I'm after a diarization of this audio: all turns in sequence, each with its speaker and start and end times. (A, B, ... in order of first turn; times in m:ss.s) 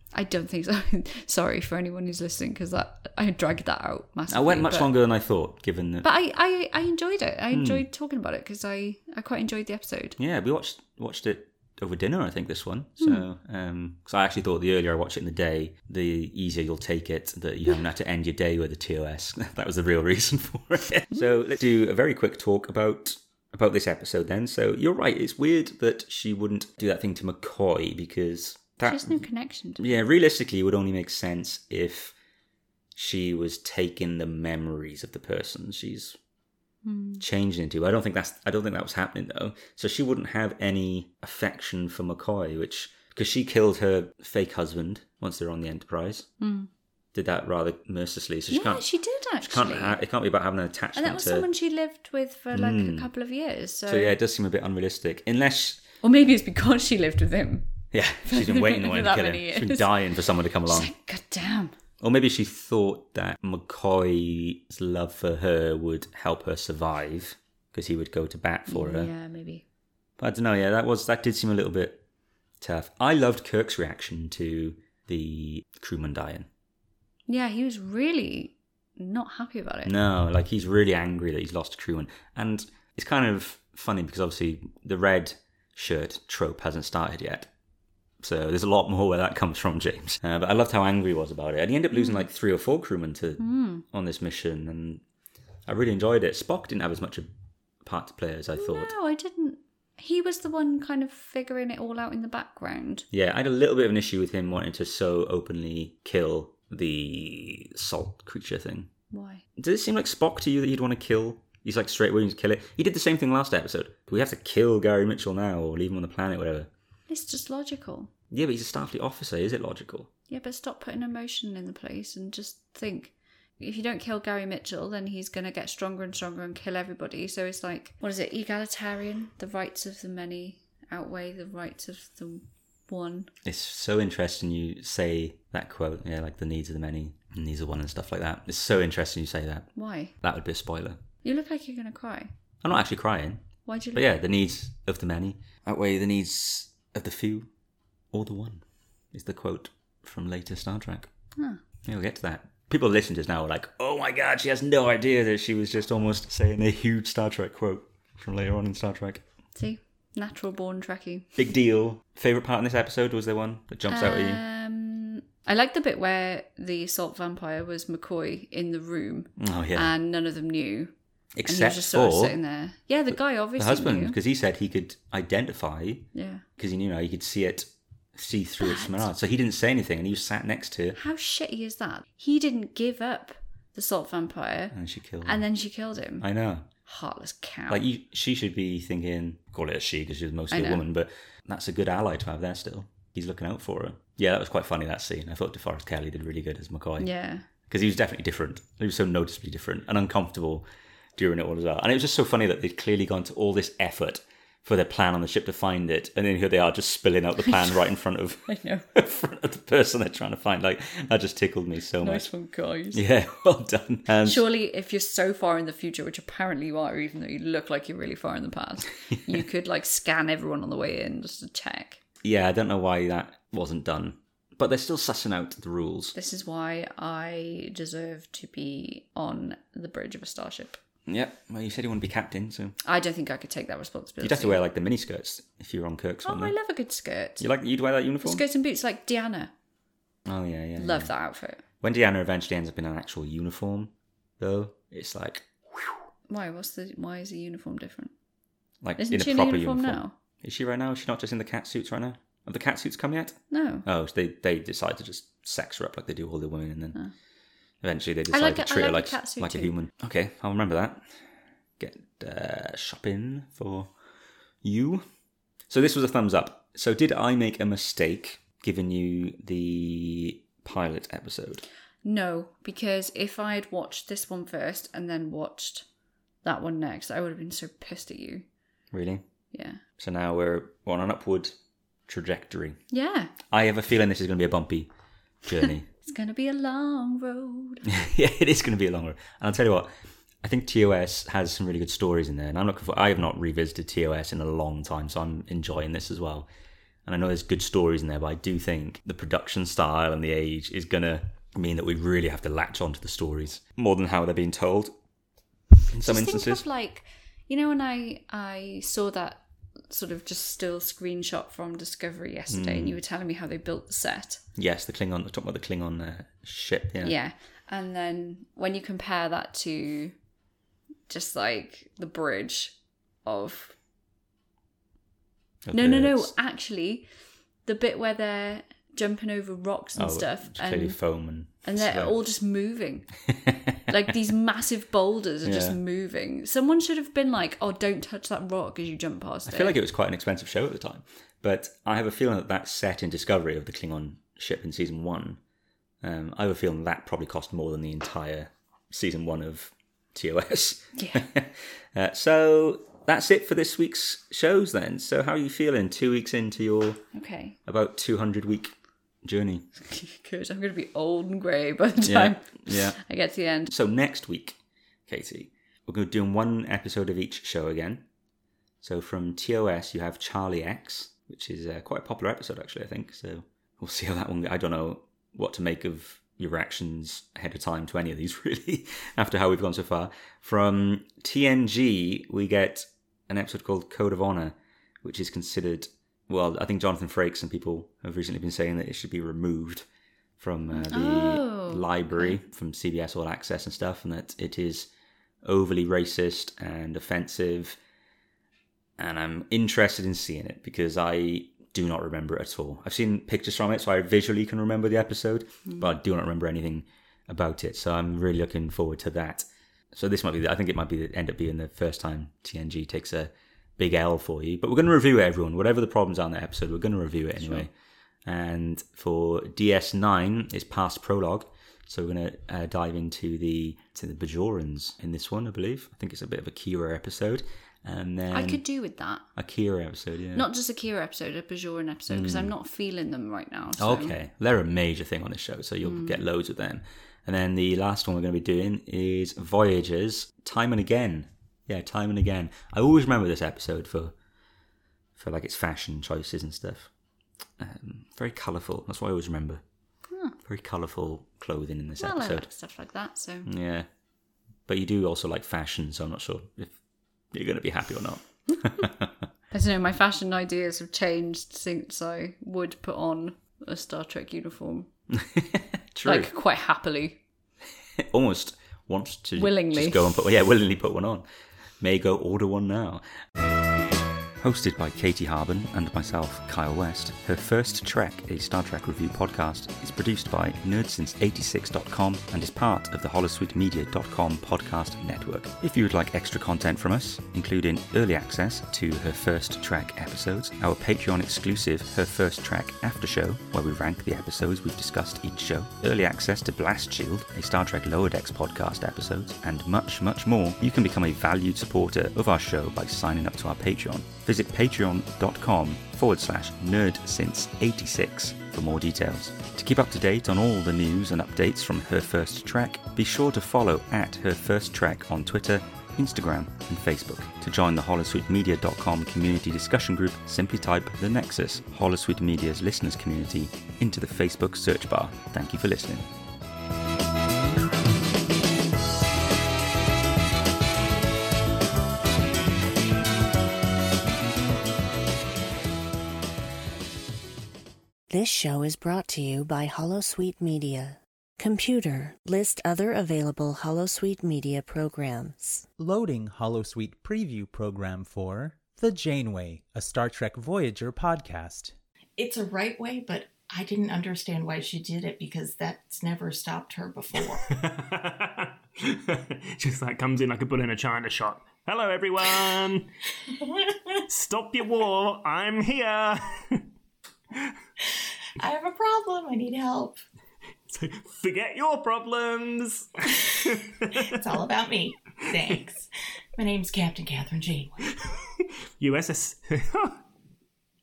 0:00.1-0:04.9 A
0:04.3-0:06.1 B
0:06.0-0:10.2 A
0:07.5-0:07.8 B
0:10.2-0:29.2 B
0:28.8-0:29.9 A
0:29.8-0:32.2 B
0:33.0-0:36.2 B
0:36.8-0:37.2 A
0:37.2-0:46.3 B
0:46.4-0:46.7 A
0:47.1-0:48.8 B
0:48.5-0:50.0 A
0:49.4-0:51.5 B
0:51.0-0:54.2 A
0:52.5-0:53.1 B
0:53.9-0:55.8 B
0:56.0-0:57.7 A
0:57.9-1:00.9 B
0:58.2-1:00.0 A
1:00.7-1:01.7 A
1:02.0-1:09.1 B
1:08.7-1:09.6 A
1:10.2-1:12.0 B
1:12.6-1:16.5 B
1:17.3-1:19.9 A
1:19.8-1:27.5 B
1:28.2-1:35.0 B
1:31.9-1:32.3 A
1:33.4-1:33.8 A
1:35.7-1:37.3 B
1:37.8-1:38.9 B
1:38.5-1:43.1 A
1:43.1-1:48.9 B
1:49.1-1:49.4 A
1:49.6-1:56.7 B
1:57.1-1:58.1 A
1:58.3-2:00.1 B
2:00.3-2:13.3 A
2:13.4-2:19.7 B
2:19.8-2:20.1 A
2:20.2-2:21.0 B
2:21.2-2:22.3 A
2:22.6-2:23.4 B
2:23.7-2:24.1 A
2:24.0-2:27.5 B
2:28.1-2:31.1 B
2:31.8-2:39.2 B
2:39.6-2:41.4 A
2:41.4-2:44.4 B
2:43.9-2:50.9 A
2:49.4-2:49.9 B
2:51.4-2:52.4 B
2:51.4-2:54.2 A
2:53.6-3:01.0 B
2:56.2-2:56.4 A
2:58.6-2:59.1 A
3:01.0-3:06.3 A
3:04.7-3:05.4 B
3:06.2-3:06.7 B
3:06.8-3:07.9 A
3:07.7-3:17.1 B
3:10.5-3:10.8 A
3:17.0-3:17.5 A
3:17.7-3:20.6 B
3:21.2-3:32.3 B
3:27.4-3:27.8 A
3:28.5-3:28.8 A
3:32.0-3:33.0 A
3:32.9-3:34.5 B
3:34.1-3:42.0 A
3:42.2-3:46.2 B
3:46.2-3:50.8 A
3:51.1-3:52.8 B
3:52.8-3:54.6 A
3:54.2-3:56.6 B
3:56.2-3:57.4 A
3:57.4-3:58.4 B
3:58.2-3:59.5 A
4:00.3-4:01.1 B
4:00.8-4:01.6 A
4:01.8-4:06.0 B
4:06.3-4:08.1 A
4:08.8-4:17.0 B
4:09.0-4:10.2 A
4:13.5-4:13.9 A
4:17.8-4:21.0 B
4:18.3-4:19.8 A
4:21.8-4:23.9 B
4:24.6-4:25.0 B
4:25.7-4:31.6 B
4:32.0-4:35.8 A
4:36.4-4:38.4 A
4:38.9-4:39.2 B
4:39.5-4:39.8 A
4:40.0-4:41.6 B
4:42.1-4:42.8 B
4:42.9-4:43.3 A
4:43.5-4:44.9 B
4:45.4-4:45.9 B
4:46.1-4:48.0 A
4:47.9-4:56.5 B
4:57.1-5:05.0 B
5:05.9-5:06.6 B
5:06.0-5:14.4 A
5:12.5-5:13.0 B
5:14.6-5:17.2 B
5:17.0-5:20.1 A
5:21.1-5:23.7 A
5:25.6-5:26.3 B
5:25.7-5:27.1 A
5:27.6-5:31.0 A
5:30.0-5:32.2 B
5:31.6-5:33.1 A
5:33.4-5:33.9 B
5:33.9-5:39.8 A
5:35.4-5:35.8 B
5:39.5-5:45.4 B
5:46.0-5:57.0 B
5:51.0-5:51.3 A
5:57.1-5:57.6 A
5:57.7-5:58.7 B
5:59.2-5:59.7 B
5:59.8-6:03.7 A
6:02.0-6:03.0 B
6:03.7-6:08.0 B
6:08.8-6:29.9 B
6:30.4-6:34.9 B
6:30.7-6:32.4 A
6:35.4-6:37.8 B
6:39.0-6:57.7 B
6:57.4-6:57.7 A
6:58.2-7:08.6 B
7:08.3-7:09.2 A
7:09.4-7:10.5 B
7:10.3-7:14.2 A
7:12.1-7:12.5 B
7:13.8-7:24.1 B
7:15.8-7:16.2 A
7:25.2-7:26.9 B
7:27.6-7:29.6 B
7:30.1-7:30.4 A
7:30.4-7:32.5 B
7:32.0-7:33.5 A
7:33.5-7:33.9 B
7:34.7-7:36.8 B
7:37.3-7:39.2 B
7:39.5-7:44.9 A
7:45.1-7:46.3 B
7:46.0-7:47.2 A
7:48.0-7:51.2 B
7:49.4-7:50.1 A
7:51.8-7:53.0 B
7:54.4-8:46.1 B
8:58.1-9:05.7 C
9:05.8-9:11.7 D
9:12.2-9:17.5 E
9:17.5-9:22.9 F
9:23.4-9:23.8 E
9:24.1-9:26.7 F
9:28.4-9:30.0 E
9:30.7-9:34.2 F
9:34.1-9:35.9 E
9:36.4-9:37.8 E
9:38.8-9:40.0 F